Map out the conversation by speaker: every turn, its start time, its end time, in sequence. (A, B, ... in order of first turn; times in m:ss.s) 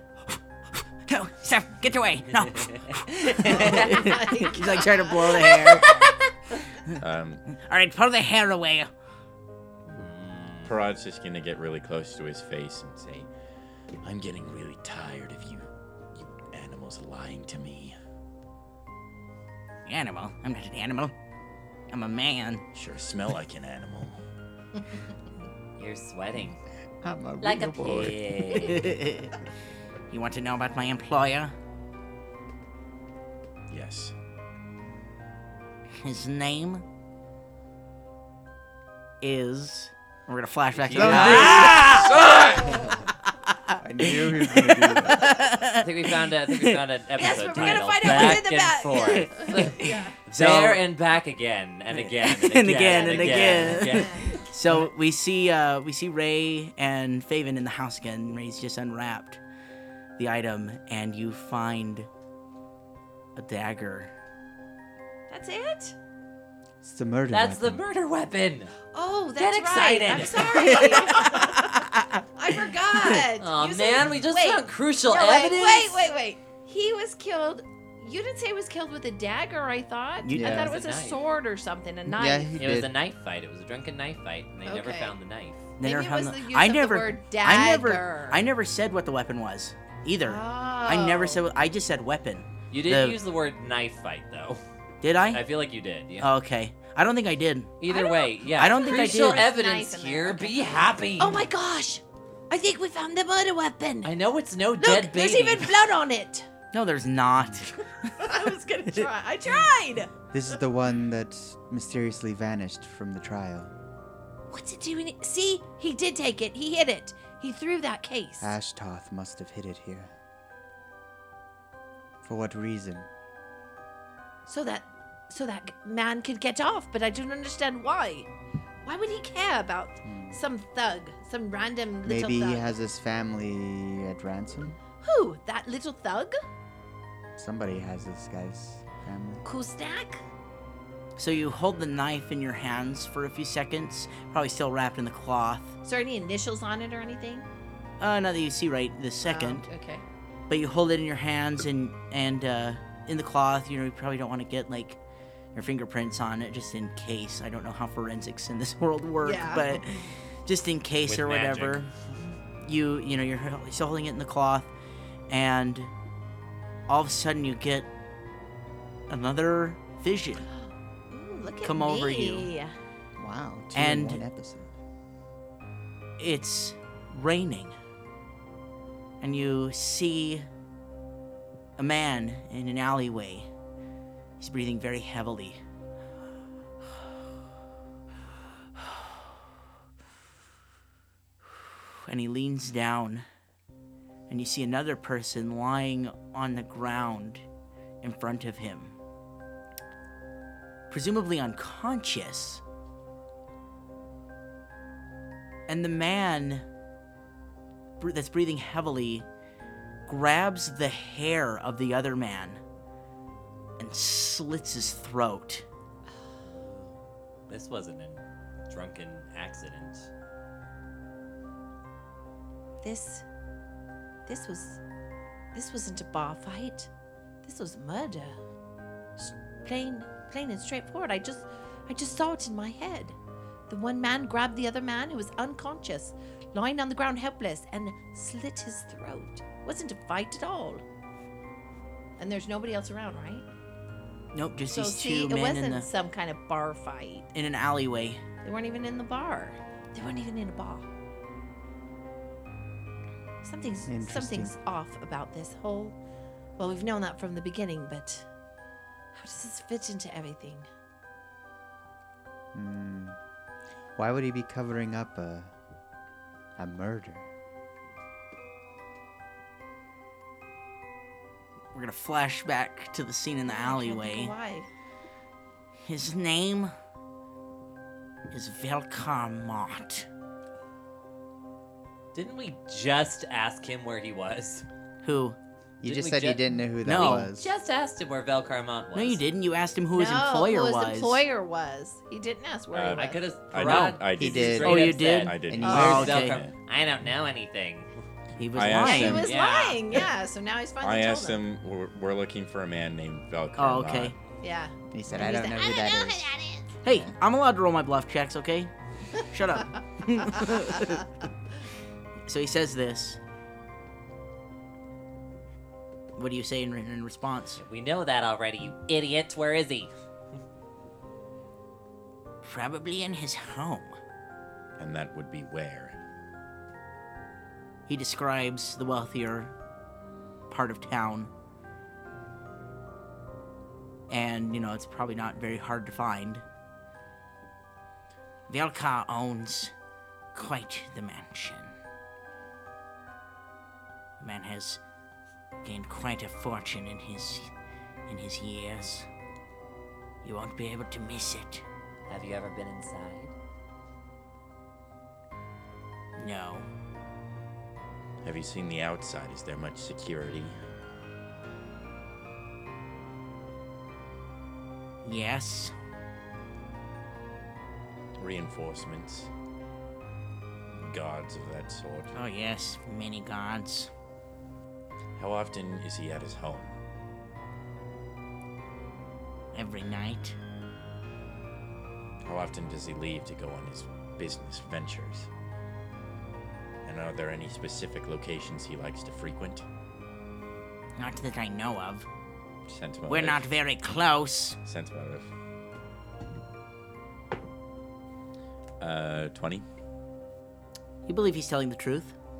0:01.0-0:08.9 A
0:03.4-0:05.9 B
0:03.5-0:04.1 C
0:06.9-0:07.4 D
0:09.9-0:10.7 C
0:10.6-0:13.3 D
0:14.0-0:18.0 D
0:19.8-0:21.1 A
0:21.9-0:22.6 A
0:22.7-0:24.2 D
0:25.8-0:26.6 C
0:27.0-0:28.9 E
0:27.4-0:28.9 C
0:28.6-0:29.3 A
0:30.1-0:31.5 A
0:33.7-0:34.1 D
0:36.0-0:36.8 A
0:39.2-0:42.3 A
0:40.8-0:42.4 C
0:40.9-0:41.7 E
0:41.2-0:42.7 D
0:41.8-0:43.0 B
0:42.7-0:43.0 E
0:43.2-0:46.8 A
0:43.8-0:45.3 E
0:45.8-0:54.4 C
0:47.2-0:50.1 B
0:47.5-0:48.4 A
0:49.0-0:50.8 A
0:52.0-0:59.4 A
0:52.7-0:54.4 B
1:00.2-1:02.1 A
1:03.4-1:04.1 A
1:05.3-1:06.0 B
1:06.8-1:07.8 E
1:07.3-1:08.8 C
1:08.9-1:11.8 B
1:09.4-1:11.2 C
1:10.1-1:12.2 A
1:12.3-1:22.6 B
1:13.4-1:16.1 C
1:20.2-1:20.7 A
1:20.3-1:20.7 E
1:20.5-1:21.2 C
1:22.1-1:22.9 E
1:22.6-1:25.7 C
1:24.6-1:25.1 B
1:25.8-1:33.2 A
1:25.8-1:28.4 B
1:30.2-1:31.4 B
1:32.7-1:34.6 C
1:35.0-1:35.4 A
1:35.3-1:36.3 C
1:36.2-1:37.7 A
1:37.8-1:41.4 C
1:37.9-1:44.1 B
1:38.5-1:39.5 A
1:44.0-1:45.7 C
1:44.8-1:46.5 B
1:46.7-1:49.1 A
1:48.2-1:50.1 B
1:50.3-1:53.7 E
1:54.5-1:58.5 B
1:58.4-2:00.1 E
2:02.2-2:03.1 E
2:04.5-2:08.3 B
2:08.8-2:12.7 B
2:10.0-2:10.4 E
2:12.0-2:14.8 E
2:15.0-2:16.4 B
2:17.4-2:19.5 E
2:19.4-2:20.2 B
2:21.2-2:25.7 A
2:25.8-2:27.5 B
2:28.0-2:29.6 A
2:29.2-2:30.0 B
2:30.5-2:35.0 A
2:35.5-2:41.9 A
2:39.2-2:39.8 B
2:41.0-2:41.9 C
2:42.6-2:44.7 A
2:45.3-2:45.9 A
2:46.9-2:47.9 A
2:49.1-2:50.4 A
2:50.6-2:52.8 B
2:51.6-2:52.5 A
2:53.2-2:54.7 E
2:53.7-2:54.2 A
2:56.2-2:57.8 A
2:59.2-3:00.5 A
3:01.8-3:03.5 A
3:04.4-3:05.6 A
3:11.4-3:13.2 A
3:14.3-3:17.4 A
3:18.0-3:19.0 A
3:20.9-3:22.6 A
3:25.7-3:26.6 A
3:28.0-3:29.2 A
3:30.1-3:32.6 A
3:33.8-3:35.6 A
3:36.4-3:36.9 C
3:37.5-3:40.1 C
3:42.8-3:43.2 B
3:44.2-3:44.8 B
3:45.5-3:46.9 B
3:47.4-3:48.4 B
3:49.2-3:53.2 B
3:53.7-4:00.8 B
4:02.2-4:03.4 B
4:04.3-4:05.9 A
4:04.7-4:07.3 B
4:07.3-4:08.2 A
4:08.4-4:10.9 B
4:13.4-4:16.0 B
4:13.8-4:14.5 E
4:16.6-4:18.3 B
4:19.1-4:20.7 B
4:22.5-4:23.2 E
4:24.0-4:25.5 E
4:26.6-4:27.3 E
4:31.7-4:34.3 A
4:33.5-4:34.7 B
4:35.8-4:36.7 A
4:38.3-4:40.1 A
4:42.1-4:44.6 C
4:45.0-4:45.4 A
4:45.8-4:47.5 E
4:45.8-4:46.4 C
4:46.8-4:47.3 A
4:47.0-4:49.2 C
4:48.9-4:51.2 A
4:49.9-4:53.2 B
4:52.7-4:56.5 D
4:52.9-4:57.9 C
4:53.6-4:54.0 A
4:54.2-4:56.2 E
4:54.6-4:56.4 A
4:55.7-4:56.0 B
4:58.4-4:59.3 A
4:58.5-4:59.4 D
4:58.8-5:01.4 B
4:59.2-5:00.1 C
5:00.8-5:04.2 D
5:03.6-5:04.1 A
5:04.4-5:06.1 B
5:04.9-5:07.1 E
5:06.8-5:11.0 A
5:10.3-5:10.9 B
5:12.3-5:13.2 A
5:16.2-5:17.6 A
5:17.6-5:19.9 C
5:22.4-5:24.0 A
5:24.8-5:26.0 D
5:27.9-5:29.5 A
5:30.5-5:31.3 A
5:34.1-5:36.4 A
5:38.5-5:39.7 A
5:40.3-5:41.8 A
5:44.2-5:44.8 A
5:45.6-5:47.5 A
5:48.1-5:49.1 A
5:50.2-5:51.6 A
5:52.1-5:53.3 C
5:56.2-5:56.7 A
5:58.2-6:00.6 D
6:05.0-6:05.7 A
6:08.2-6:09.3 D
6:10.7-6:12.2 D
6:12.1-6:13.9 A
6:15.2-6:16.7 D
6:19.5-6:20.4 A
6:22.2-6:25.3 D
6:26.8-6:29.6 D
6:31.0-6:32.1 A
6:32.7-6:33.5 D
6:33.1-6:34.6 A
6:34.6-6:35.3 D
6:38.8-6:39.6 D
6:41.0-6:42.1 A